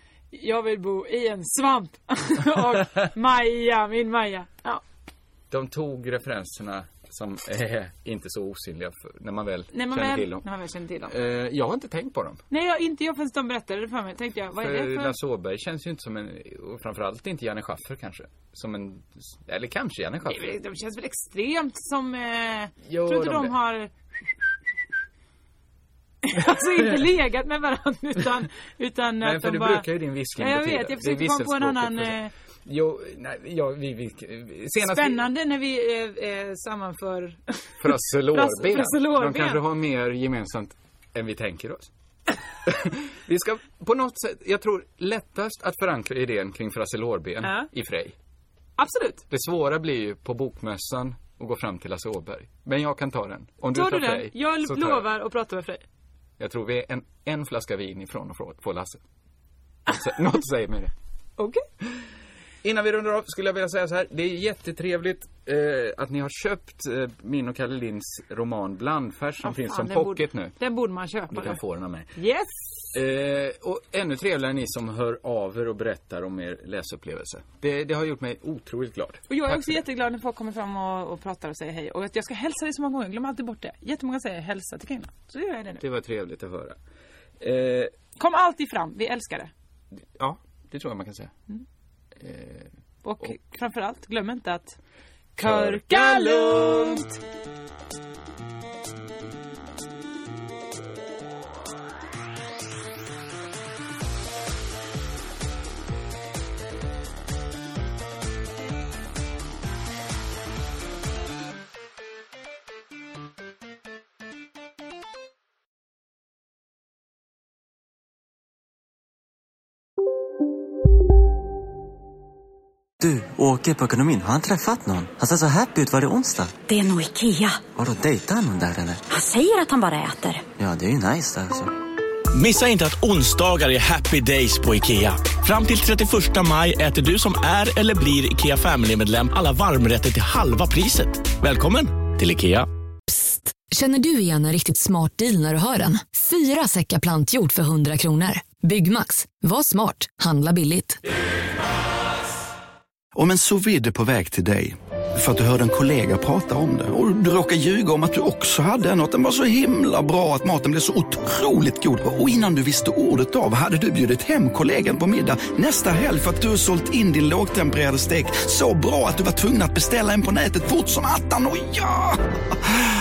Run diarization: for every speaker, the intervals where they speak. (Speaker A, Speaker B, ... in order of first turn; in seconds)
Speaker A: 0.3-4.8, 9.7-11.1, 12.5-15.2, 20.2-23.9, 26.2-32.3, 34.8-39.6, 47.4-47.7, 48.8-49.2, 53.7-55.8, 61.4-61.6, 69.4-71.6, 72.1-72.8, 79.3-85.8, 88.2-89.5, 93.0-94.8, 95.3-97.2
Speaker B: 5.5-10.4, 11.1-12.4, 14.6-20.5, 22.8-23.6, 29.2-35.3, 37.8-41.9, 42.6-48.1, 49.3-55.1, 56.4-59.0, 59.9-60.9, 62.6-70.5, 71.3-72.1, 72.9-79.8, 85.8-86.8, 87.4-87.9, 90.2-91.3, 92.2-93.3, 95.4-97.0
Speaker C: 123.0-126.5, 127.7-129.0, 130.6-131.7
Speaker D: 126.7-127.6, 129.1-130.4
Speaker E: 132.3-142.7
Speaker F: 143.1-151.0
Speaker G: 153.1-172.8